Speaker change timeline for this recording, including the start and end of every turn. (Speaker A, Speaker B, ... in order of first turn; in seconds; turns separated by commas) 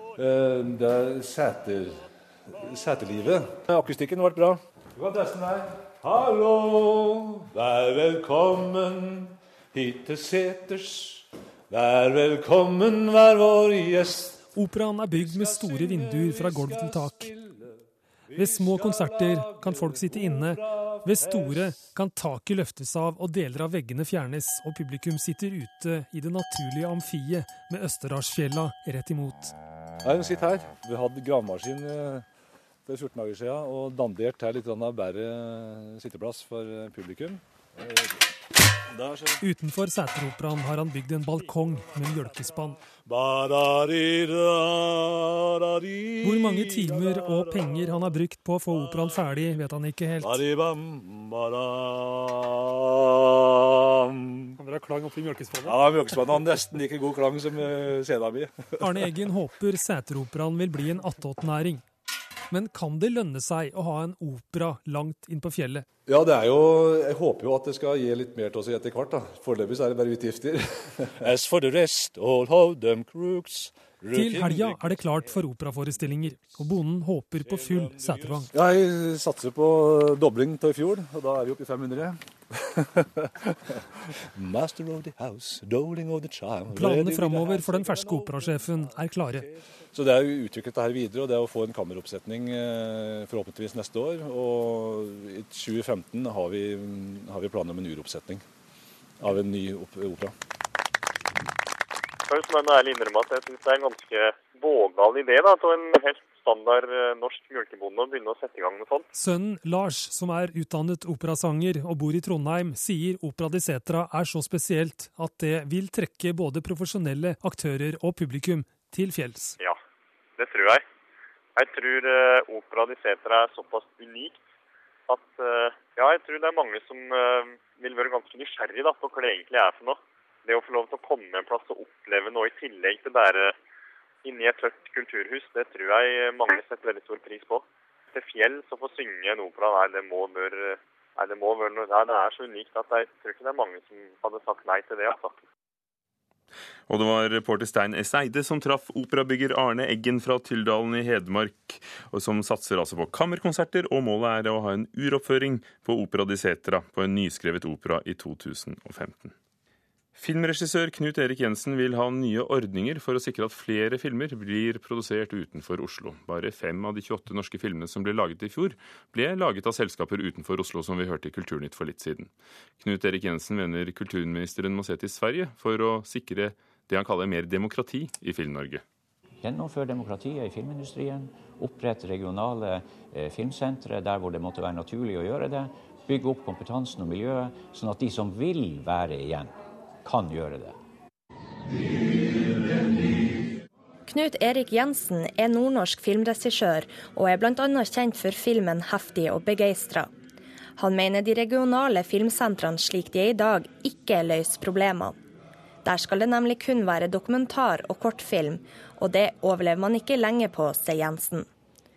Speaker A: 0.2-14.5, Speaker B: 14.5-17.3, Speaker A: 15.1-17.7, Speaker A: 18.3-21.9, Speaker B: 18.3-29.5, Speaker A: 30.0-32.2, Speaker A: 32.9-38.2, Speaker A: 38.9-39.4, Speaker B: 39.4-42.8, Speaker A: 43.0-47.8, Speaker B: 46.2-50.4, Speaker A: 48.7-49.4, Speaker A: 50.2-54.6, Speaker B: 54.6-56.4, Speaker A: 55.6-59.1, Speaker B: 58.8-61.8, Speaker B: 62.5-65.8, Speaker A: 66.1-75.3, Speaker B: 74.1-78.5, Speaker A: 76.2-76.6, Speaker A: 77.4-98.4, Speaker B: 86.7-89.5, Speaker A: 99.2-100.3, Speaker C: 102.3-109.0, Speaker B: 109.1-119.5, Speaker C: 120.4-120.8, Speaker C: 121.5-124.4, Speaker C: 125.1-133.5, Speaker C: 134.2-145.3, Speaker D: 146.9-159.3, Speaker D: 160.2-178.8, Speaker E: 179.4-189.5, Speaker E: 190.0-190.8, Speaker F: 194.1-200.1, Speaker F: 200.8-205.2, Speaker F: 205.8-211.5